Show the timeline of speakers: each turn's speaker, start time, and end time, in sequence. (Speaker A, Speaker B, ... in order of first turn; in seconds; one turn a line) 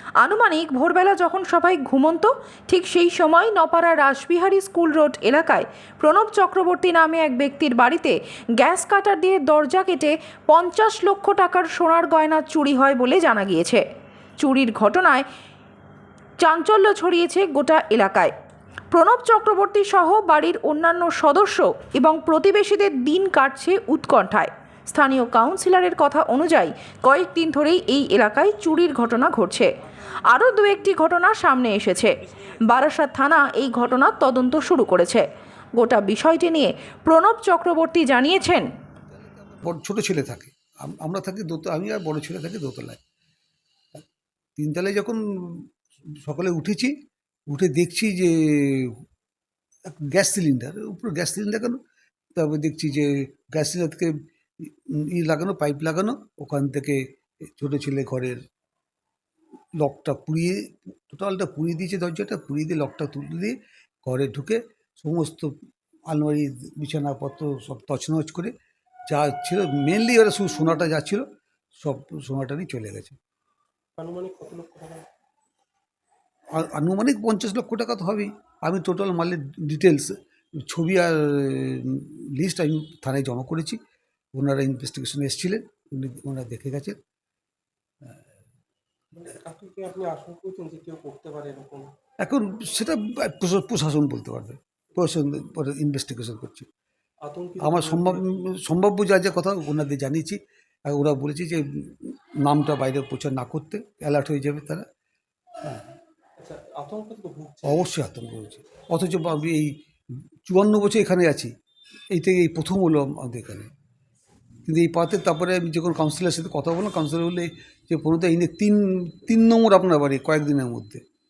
Speaker A: 0.2-13.8
Speaker A: 14.4-15.2
Speaker A: 16.4-18.3
Speaker A: 18.9-29.7
Speaker A: 30.3-38.7
Speaker B: 39.2-43.0
Speaker B: 44.6-46.9
Speaker B: 47.5-49.0
Speaker B: 49.9-51.8
Speaker B: 52.4-58.4
Speaker B: 59.8-65.5
Speaker B: 66.1-68.5
Speaker B: 69.1-71.2
Speaker B: 71.8-73.2
Speaker C: 74.0-75.0
Speaker B: 76.5-83.8
Speaker B: 84.3-87.0
Speaker C: 89.1-91.9
Speaker B: 92.2-96.7
Speaker C: 97.2-98.2
Speaker B: 97.6-104.8
Speaker C: 106.4-107.8
Speaker B: 107.6-109.7
Speaker B: 110.4-111.5
Speaker B: 112.1-113.7
Speaker B: 114.7-121.0